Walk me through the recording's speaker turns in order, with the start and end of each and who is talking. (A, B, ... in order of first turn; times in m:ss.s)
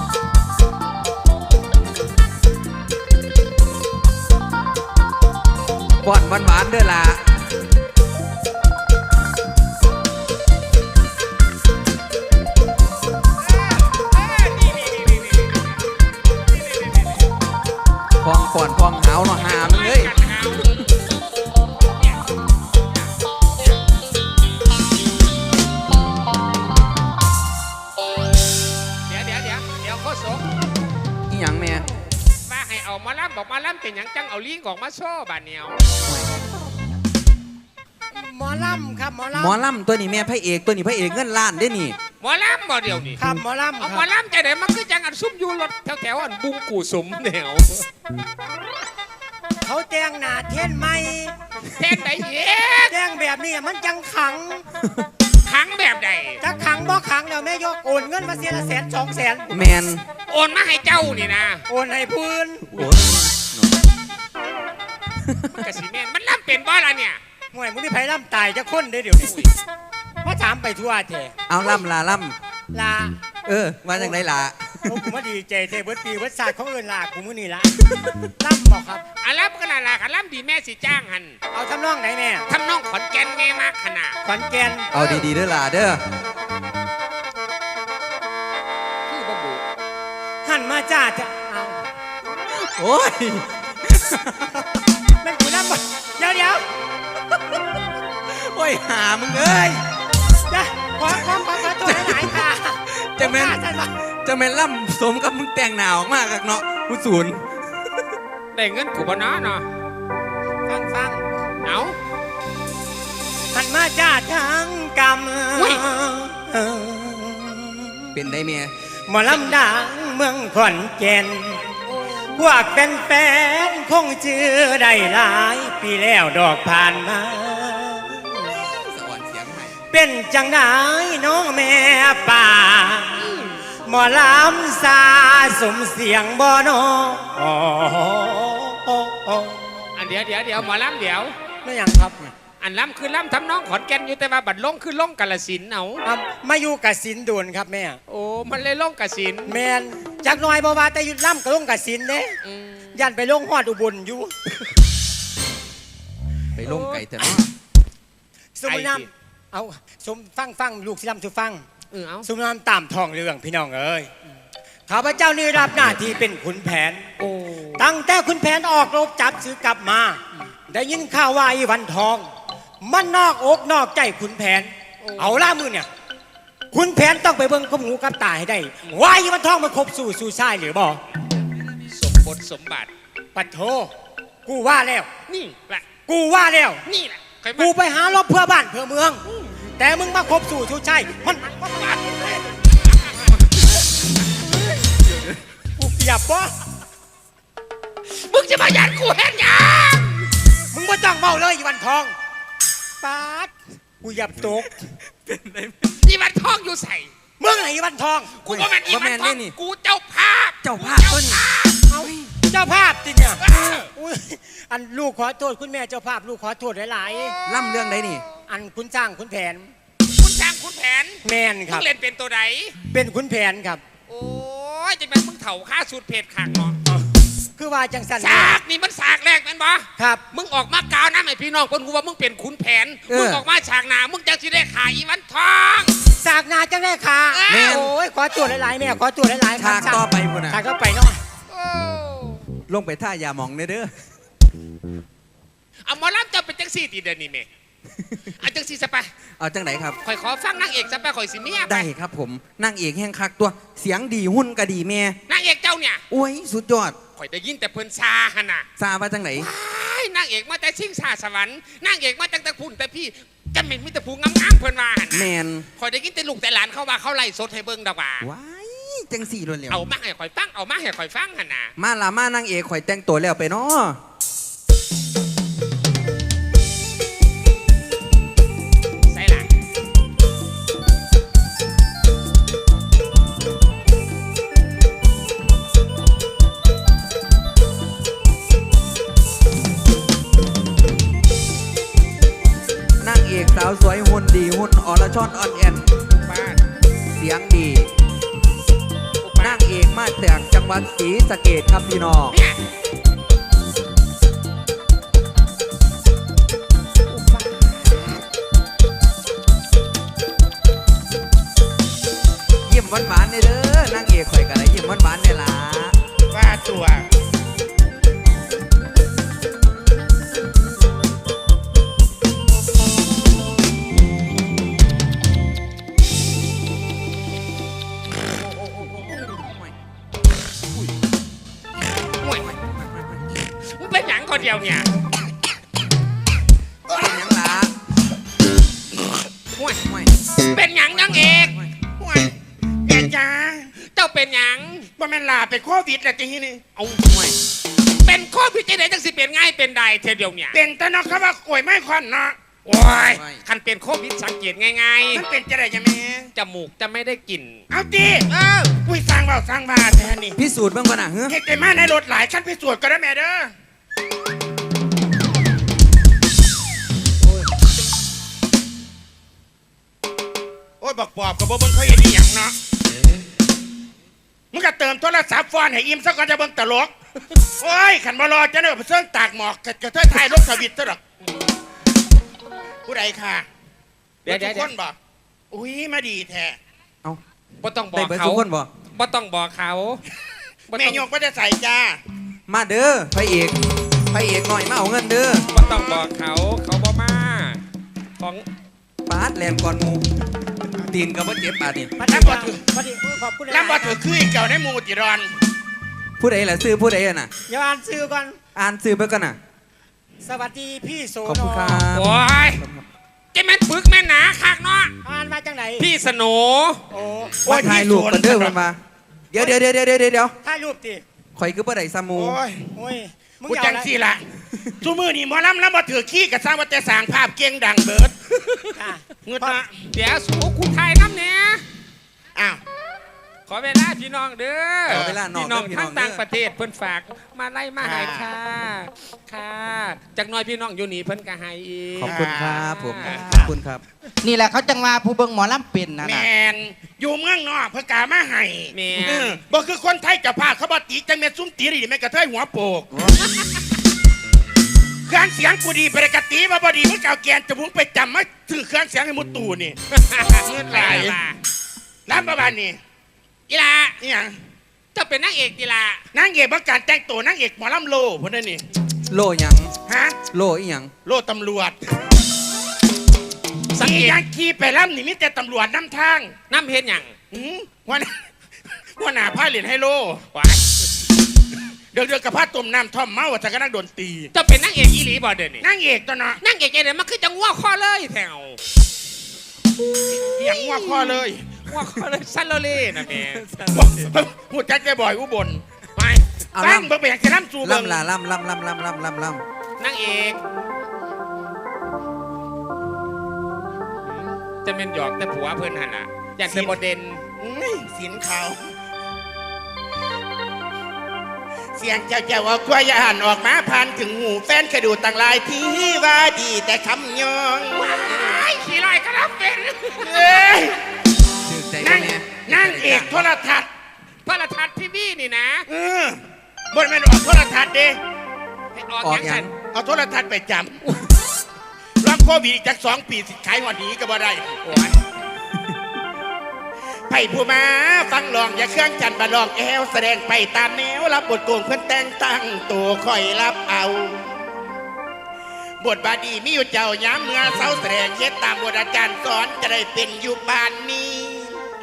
0:06.0-0:07.2 A
0:13.7-0:15.6 B
0:18.2-0:20.1 A
0:19.4-0:20.8 B
0:29.1-0:30.4 B
0:31.3-0:31.8 A
0:32.4-0:35.7 B
0:36.1-0:36.4 A
0:38.1-0:39.6 C
0:39.3-0:42.0 A
0:42.2-0:43.2 B
0:43.2-0:44.1 C
0:43.8-0:47.8 B
0:49.6-0:51.3 C
0:51.7-0:52.9 B
0:52.9-0:54.6 C
0:55.4-0:56.4 B
0:56.4-0:59.7 C
0:59.5-1:00.0 A
1:00.3-1:01.6 B
1:01.7-1:02.9 C
1:02.7-1:03.8 A
1:05.2-1:05.6 A
1:05.6-1:07.2 B
1:07.5-1:09.4 C
1:09.1-1:09.5 B
1:10.2-1:11.3 C
1:11.5-1:12.4 A
1:12.7-1:13.2 C
1:13.4-1:15.0 A
1:14.8-1:17.8 C
1:17.9-1:18.2 A
1:18.4-1:19.0 C
1:19.2-1:21.4 B
1:21.5-1:22.4 C
1:22.5-1:24.2 B
1:24.2-1:24.9 C
1:24.9-1:26.0 A
1:29.1-1:29.6 B
1:30.4-1:31.8 C
1:32.5-1:34.5 A
1:35.2-1:36.6 C
1:38.3-1:39.8 A
1:40.5-1:43.9 C
1:41.1-1:47.6 A
1:48.5-1:49.7 B
1:50.6-1:51.2 C
1:51.6-1:52.0 B
1:53.5-1:58.0 C
1:55.5-1:55.8 B
1:58.1-1:58.7 A
1:59.1-2:01.6 C
1:59.2-1:59.6 B
2:01.9-2:02.4 B
2:02.3-2:08.2 C
2:08.8-2:09.8 A
2:09.9-2:13.2 C
2:13.2-2:13.6 B
2:13.8-2:19.6 C
2:20.0-2:21.3 B
2:21.6-2:22.2 C
2:22.6-2:26.0 B
2:26.0-2:28.0 C
2:28.1-2:29.6 B
2:29.5-2:32.3 C
2:32.4-2:33.1 B
2:32.9-2:34.3 C
2:36.5-2:37.5 A
2:36.7-2:37.0 B
2:38.6-2:41.6 C
2:38.6-2:39.1 B
2:41.9-2:42.3 B
2:42.2-2:44.1 C
2:44.9-2:47.0 C
2:45.7-2:46.2 A
2:47.2-2:47.9 B
2:47.8-2:52.3 C
2:52.8-2:55.9 C
2:55.0-2:55.5 B
2:56.7-3:01.0 C
3:01.9-3:02.9 B
3:03.3-3:03.9 C
3:04.4-3:05.1 C
3:05.3-3:05.9 B
3:06.0-3:06.8 C
3:06.8-3:07.7 B
3:07.6-3:09.2 C
3:09.8-3:12.0 C
3:11.9-3:12.4 B
3:15.0-3:15.4 A
3:15.8-3:16.5 C
3:18.1-3:20.2 B
3:20.7-3:22.1 C
3:23.0-3:24.7 C
3:25.1-3:26.0 A
3:26.0-3:27.1 B
3:27.4-3:28.3 C
3:28.4-3:31.8 B
3:28.4-3:29.6 A
3:30.6-3:32.4 A
3:31.9-3:37.3 C
3:33.4-3:33.9 B
3:37.1-3:38.2 B
3:37.4-3:38.2 A
3:38.5-3:39.7 C
3:40.2-3:42.8 B
3:41.2-3:41.9 C
3:42.9-3:43.8 C
3:44.1-3:46.8 B
3:47.6-3:48.6 C
3:48.2-3:56.0 B
3:50.0-3:50.2 C
3:53.1-3:53.4 A
3:56.2-4:01.2 C
3:57.3-3:57.9 B
3:57.5-3:57.9 A
3:59.6-4:00.6 A
4:01.5-4:02.4 B
4:02.7-4:03.9 A
4:05.8-4:07.4 B
4:08.3-4:09.1 B
4:09.4-4:10.0 A
4:10.0-4:11.9 B
4:11.7-4:15.2 A
4:15.3-4:16.0 B
4:16.1-4:17.0 A
4:17.2-4:18.6 B
4:18.8-4:19.5 A
4:19.4-4:28.3 B
4:25.1-4:25.7 A
4:28.2-4:29.8 A
4:29.7-4:31.7 B
4:31.8-4:34.0 A
4:39.1-4:39.5 B
4:53.0-4:55.9 A
4:56.2-4:56.6 B
4:57.1-4:57.9 A
4:59.2-4:59.6 B
4:59.4-5:02.4 A
5:02.3-5:02.6 B
5:07.1-5:08.2 B
5:12.6-5:16.0 A
5:16.3-5:17.0 D
5:29.2-5:29.7 A
5:32.2-5:32.5 B
5:32.4-5:33.3 A
5:33.6-5:34.9 B
5:36.9-5:37.7 A
5:39.5-5:39.8 B
5:39.8-5:40.1 A
5:40.4-5:41.5 B
5:40.9-5:41.9 A
5:42.8-5:43.7 D
5:43.8-5:44.9 B
5:45.0-5:46.6 D
5:46.8-5:47.0 B
5:47.0-5:47.4 A
5:47.9-5:50.6 B
5:50.5-5:52.4 D
5:52.6-5:55.2 B
5:53.1-5:53.4 A
5:55.2-5:56.3 D
5:56.3-5:57.6 B
5:57.7-5:58.3 D
5:58.3-5:58.7 B
5:58.9-6:00.3 D
6:00.3-6:01.4 A
6:01.3-6:03.5 D
6:10.8-6:12.5 D
6:14.5-6:16.9 D
6:17.6-6:21.0 D
6:22.9-6:23.4 D
6:24.2-6:24.7 B
6:24.3-6:25.0 D
6:25.5-6:26.6 D
6:27.6-6:30.0 B
6:27.9-6:28.7 A
6:30.7-6:31.0 B
6:30.8-6:32.0 D
6:32.5-6:33.6 A
6:34.1-6:35.5 A
6:35.5-6:37.6 B
6:38.2-6:38.4 B
6:39.0-6:40.1 A
6:40.8-6:42.0 A
6:42.0-6:44.0 C
6:42.1-6:42.6 D
6:43.5-6:45.3 D
6:46.2-6:47.3 A
6:47.5-6:48.4 C
6:48.5-6:49.4 A
6:50.2-6:51.8 C
6:51.2-6:52.8 A
6:51.9-6:52.6 B
6:53.3-6:54.9 B
6:55.0-6:55.9 C
6:55.8-6:56.8 B
6:56.9-6:57.4 C
6:57.4-6:58.6 D
6:57.4-6:58.8 A
6:59.3-7:00.3 A
7:00.4-7:01.0 C
7:01.4-7:02.4 A
7:02.7-7:03.9 C
7:03.5-7:04.2 D
7:04.8-7:08.2 D
7:08.8-7:09.6 C
7:09.2-7:09.6 D
7:09.9-7:11.6 B
7:12.4-7:12.6 D
7:13.5-7:23.5 B
7:14.9-7:16.2 A
7:17.8-7:18.3 D
7:22.0-7:23.8 A
7:22.1-7:22.5 D
7:24.2-7:26.3 E
7:26.0-7:32.9 D
7:28.7-7:29.4 B
7:32.9-7:33.2 E
7:35.1-7:39.8 D
7:39.9-7:41.4 B
7:40.8-7:41.2 D
7:42.1-7:42.8 D
7:43.5-7:44.0 B
7:44.0-7:44.4 D
7:44.9-7:46.0 B
7:46.1-7:48.6 D
7:49.1-7:50.9 A
7:49.9-7:50.2 D
7:51.0-7:51.8 D
7:53.7-7:54.2 B
7:53.8-7:56.3 D
7:56.5-7:57.1 B
7:57.3-7:58.2 D
7:59.0-8:00.2 D
8:00.3-8:00.6 B
8:01.9-8:04.3 D
8:04.3-8:05.6 B
8:05.6-8:06.4 D
8:06.4-8:08.6 B
8:09.8-8:13.4 B
8:10.3-8:11.4 D
8:13.1-8:14.2 A
8:14.2-8:15.6 D
8:16.0-8:16.2 B
8:16.5-8:17.1 A
8:16.8-8:17.9 D
8:17.6-8:19.4 A
8:19.8-8:20.4 B
8:24.2-8:27.2 B
8:27.4-8:28.6 D
8:31.8-8:37.9 D
8:37.7-8:40.7 B
8:40.1-8:40.8 D
8:41.4-8:43.3 A
8:41.8-8:43.7 D
8:44.2-8:45.7 B
8:45.7-8:46.2 D
8:46.7-8:48.0 D
8:48.7-8:49.5 B
8:49.0-8:49.6 A
8:49.8-8:50.8 D
8:52.0-8:54.5 D
8:54.6-8:55.0 B
8:57.1-9:04.2 D
9:05.8-9:11.6 D
9:07.4-9:07.8 A